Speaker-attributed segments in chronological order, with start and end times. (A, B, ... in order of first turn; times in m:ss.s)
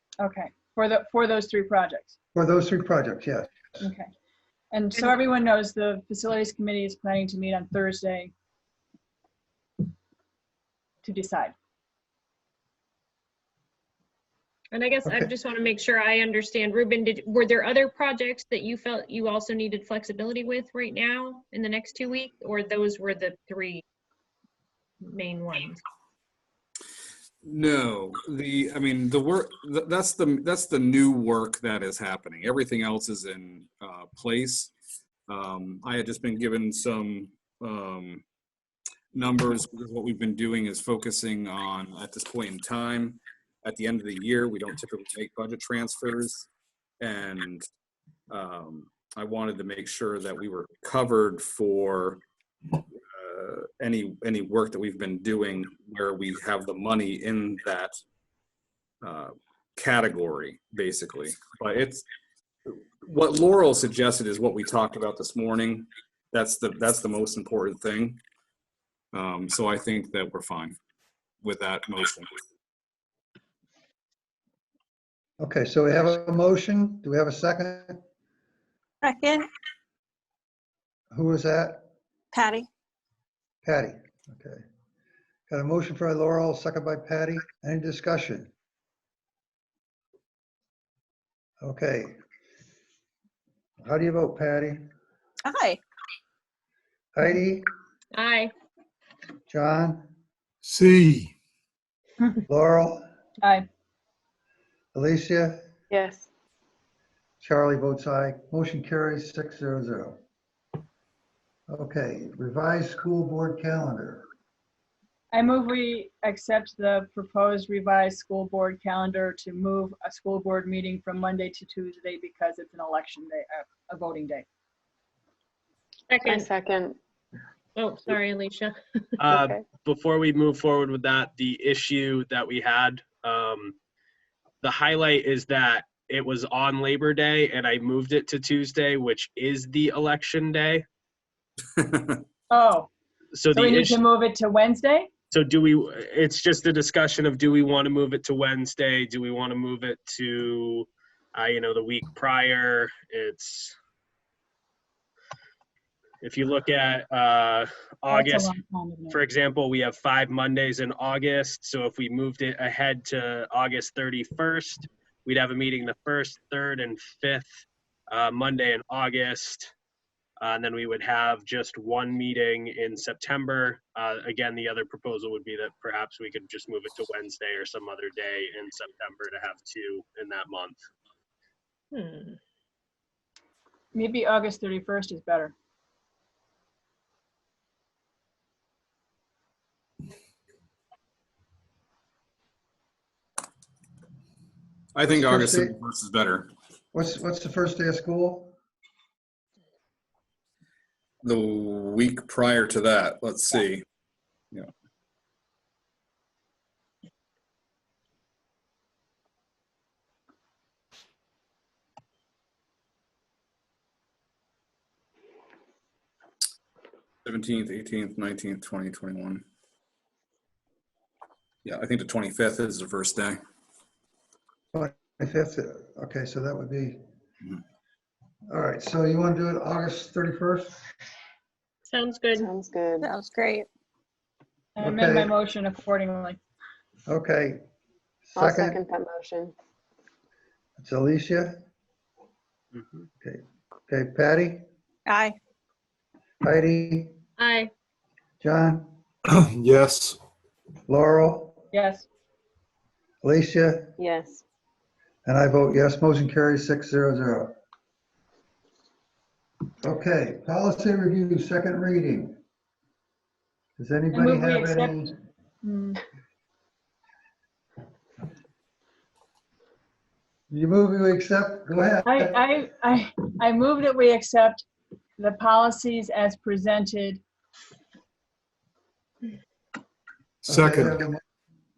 0:00.2-0:02.2 A
0:02.3-0:03.8 B
0:03.8-0:04.1 A
0:04.7-0:08.3 A
0:11.0-0:11.5 A
0:14.7-0:23.8 C
0:15.0-0:15.3 B
0:25.0-0:25.8 C
0:27.4-0:34.7 D
0:35.3-0:38.2 D
0:39.1-0:46.5 D
0:47.0-0:47.6 D
0:48.3-0:52.2 D
0:53.1-0:57.9 D
0:59.0-1:02.0 D
1:02.6-1:08.2 D
1:09.1-1:10.8 D
1:11.4-1:12.3 D
1:15.4-1:18.0 B
1:19.0-1:19.5 E
1:21.1-1:21.8 B
1:22.3-1:22.7 E
1:23.6-1:24.6 B
1:25.5-1:28.5 B
1:31.6-1:32.2 B
1:33.8-1:34.9 B
1:35.4-1:35.8 E
1:37.1-1:37.7 B
1:38.1-1:38.5 C
1:39.5-1:40.1 B
1:40.6-1:41.3 F
1:42.5-1:43.0 B
1:44.9-1:45.6 B
1:45.9-1:46.3 G
1:47.4-1:50.2 B
1:51.7-1:54.2 B
1:55.3-2:04.5 A
2:06.1-2:06.5 C
2:06.2-2:07.0 G
2:07.8-2:09.2 C
2:09.2-2:13.8 H
2:09.3-2:09.6 G
2:14.6-2:20.8 H
2:21.8-2:22.2 D
2:22.5-2:22.9 A
2:23.3-2:24.0 H
2:23.5-2:25.1 A
2:25.3-2:33.7 H
2:36.2-2:38.5 H
2:38.1-2:39.2 A
2:39.1-2:47.5 H
2:48.1-2:49.7 H
2:50.4-3:00.8 H
3:01.9-3:02.4 C
3:03.9-3:05.5 A
3:14.9-3:16.5 D
3:15.1-3:15.7 B
3:16.9-3:18.5 B
3:21.2-3:23.8 D
3:37.2-3:39.4 D
3:41.6-3:43.4 D
3:44.7-3:47.0 B
3:48.5-3:50.8 B
3:51.8-3:52.5 C
3:52.4-3:53.1 G
3:53.0-3:53.7 E
3:54.8-3:56.4 A
3:54.8-3:55.3 B
3:57.1-3:57.6 B
3:58.3-3:58.8 B
3:58.3-3:59.5 G
4:00.8-4:01.6 B
4:02.7-4:03.0 H
4:03.2-4:04.6 B
4:05.1-4:05.4 E
4:06.4-4:07.2 B
4:07.4-4:07.7 C
4:08.4-4:08.9 B
4:09.3-4:10.2 F
4:10.9-4:11.6 B
4:11.7-4:12.1 A
4:13.2-4:14.0 B
4:14.0-4:14.4 G
4:15.2-4:17.6 B
4:19.8-4:22.4 B
4:23.8-4:25.1 B
4:24.1-4:25.0 A
4:25.6-4:26.0 A
4:30.5-4:32.4 B
4:32.0-4:34.6 A
4:35.2-4:37.2 A
4:40.4-4:41.0 F
4:40.5-4:41.2 B